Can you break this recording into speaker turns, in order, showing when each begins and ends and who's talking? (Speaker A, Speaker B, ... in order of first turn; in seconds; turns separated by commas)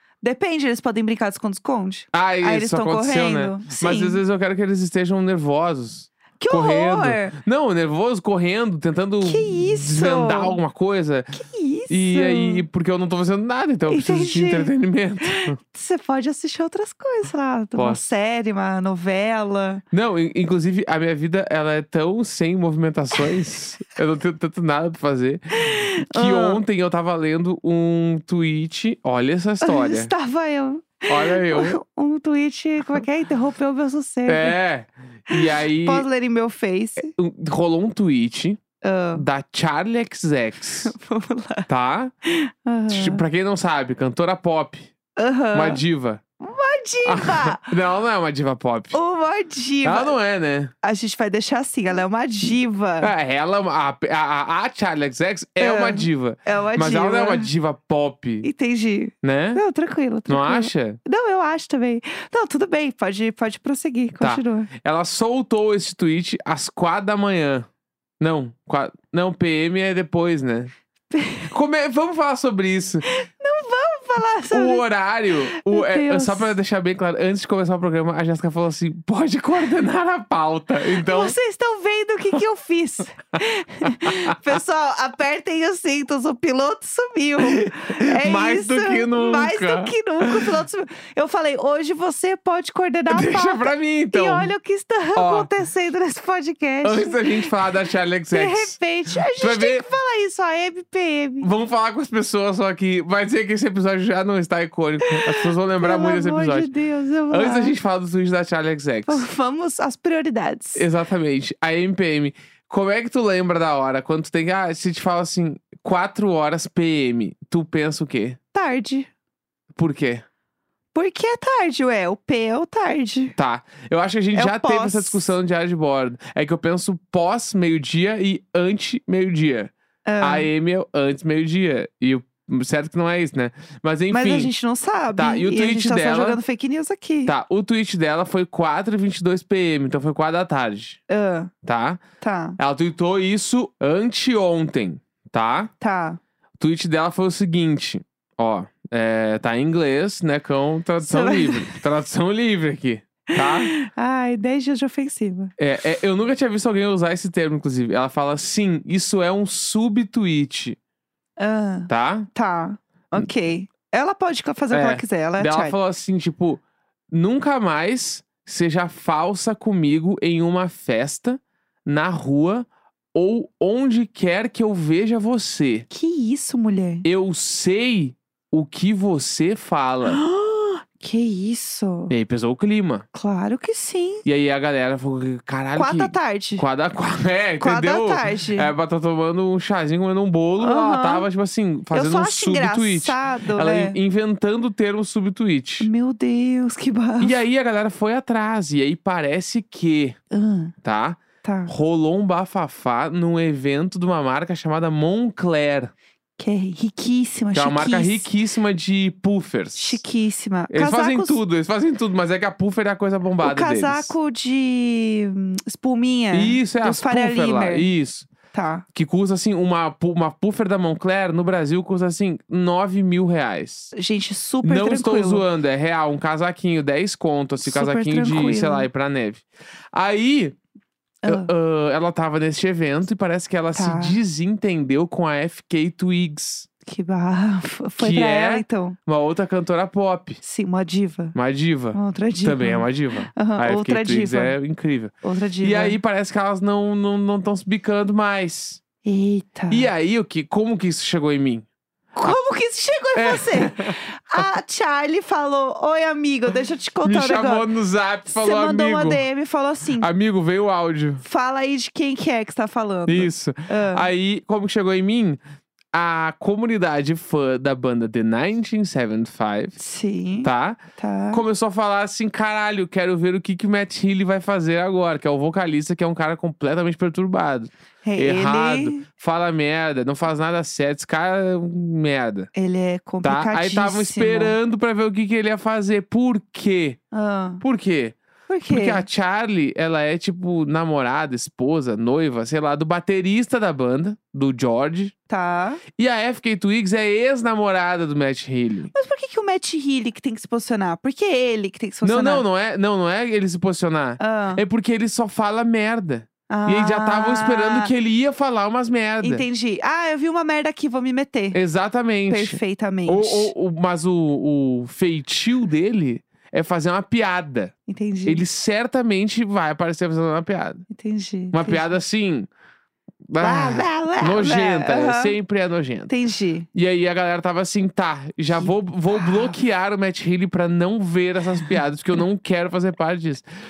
Speaker A: 0.2-4.2, Speaker B: 2.1-11.4, Speaker A: 6.4-7.3, Speaker A: 9.2-10.6, Speaker A: 11.3-12.6, Speaker B: 11.9-15.6, Speaker A: 13.9-19.8, Speaker B: 17.7-18.0, Speaker B: 19.9-30.1, Speaker A: 25.6-26.6, Speaker A: 29.6-34.6, Speaker B: 31.1-31.8, Speaker B: 34.3-36.0, Speaker A: 35.3-37.1, Speaker B: 37.0-38.6, Speaker A: 38.8-39.2, Speaker B: 39.1-40.9, Speaker A: 40.8-41.7, Speaker B: 41.7-42.1, Speaker A: 42.2-43.2, Speaker B: 42.9-44.9, Speaker A: 45.2-45.8, Speaker B: 45.5-46.2, Speaker A: 46.4-47.7, Speaker B: 47.0-49.0, Speaker A: 48.9-50.2, Speaker B: 49.8-50.7, Speaker A: 50.8-53.1, Speaker B: 52.4-58.5, Speaker A: 55.6-57.5, Speaker A: 58.4-64.7, Speaker B: 59.2-59.6, Speaker B: 60.3-61.0, Speaker B: 64.2-67.7, Speaker B: 68.2-70.7, Speaker A: 71.1-71.5, Speaker B: 71.5-73.0, Speaker A: 73.0-76.5, Speaker B: 74.5-81.3, Speaker A: 80.9-97.5, Speaker B: 83.8-84.1, Speaker B: 87.4-90.5, Speaker B: 93.1-94.5, Speaker B: 95.2-95.5, Speaker B: 96.8-98.7, Speaker A: 98.3-101.5, Speaker B: 99.4-99.8, Speaker B: 101.4-106.7, Speaker A: 105.0-107.7, Speaker B: 107.3-109.2, Speaker A: 109.1-110.8, Speaker B: 110.8-118.4, Speaker A: 118.5-119.1, Speaker B: 119.8-120.2, Speaker A: 120.9-123.3, Speaker B: 123.4-134.5, Speaker A: 124.3-125.3, Speaker A: 130.0-130.5, Speaker A: 134.1-137.3, Speaker B: 135.1-136.4, Speaker B: 137.2-141.0, Speaker A: 141.1-141.5, Speaker B: 141.6-142.0, Speaker A: 142.2-142.6, Speaker B: 142.6-145.7, Speaker A: 145.8-146.2, Speaker B: 146.6-153.7, Speaker A: 151.0-151.8, Speaker A: 153.3-155.5, Speaker B: 155.6-160.8, Speaker A: 161.4-165.8, Speaker B: 161.9-162.3, Speaker B: 164.7-175.9, Speaker A: 175.9-177.0, Speaker B: 177.0-180.2, Speaker A: 180.0-182.1, Speaker B: 182.1-183.1, Speaker A: 183.1-184.2, Speaker B: 184.2-195.9, Speaker A: 185.8-186.7, Speaker A: 187.6-188.7, Speaker A: 190.6-191.3, Speaker A: 191.9-194.0, Speaker A: 195.8-197.4, Speaker B: 197.2-200.2, Speaker A: 200.3-200.7, Speaker B: 200.8-205.9, Speaker A: 201.4-201.7, Speaker A: 206.4-208.3, Speaker B: 207.5-210.0, Speaker A: 209.7-211.4, Speaker B: 210.7-214.1, Speaker A: 213.4-217.9, Speaker B: 216.3-218.3, Speaker A: 218.5-218.8, Speaker B: 218.9-223.9, Speaker A: 223.9-225.4, Speaker B: 224.6-230.6, Speaker A: 227.6-228.9, Speaker A: 231.2-231.5, Speaker B: 231.3-236.7, Speaker A: 233.7-234.2, Speaker A: 236.8-239.0, Speaker B: 238.0-240.4, Speaker A: 240.4-241.3, Speaker B: 241.3-248.8, Speaker A: 241.9-244.5, Speaker A: 245.2-246.0, Speaker A: 249.0-249.9, Speaker B: 249.7-251.7, Speaker A: 252.1-257.7, Speaker B: 253.1-254.0, Speaker B: 257.0-259.2, Speaker A: 258.3-260.1, Speaker B: 260.0-261.2, Speaker A: 261.2-264.1, Speaker B: 263.1-265.4, Speaker B: 265.9-269.7, Speaker A: 269.8-271.4, Speaker B: 270.4-270.8, Speaker B: 271.3-282.5, Speaker A: 278.0-279.1, Speaker A: 282.5-284.6, Speaker B: 283.2-287.0, Speaker A: 287.1-287.6, Speaker B: 287.6-288.2, Speaker A: 288.5-289.0, Speaker B: 288.7-295.1, Speaker A: 295.3-295.8, Speaker B: 296.0-298.9, Speaker A: 298.9-302.4, Speaker B: 302.0-309.4, Speaker A: 304.2-304.6, Speaker A: 306.5-307.9, Speaker A: 309.2-311.6, Speaker B: 311.5-317.7, Speaker A: 312.3-313.5, Speaker A: 317.9-318.4, Speaker B: 318.2-320.8, Speaker A: 320.9-321.9, Speaker B: 321.5-322.5, Speaker B: 323.3-326.1, Speaker A: 323.4-325.4, Speaker A: 326.1-326.7, Speaker B: 326.7-333.4, Speaker A: 328.6-329.6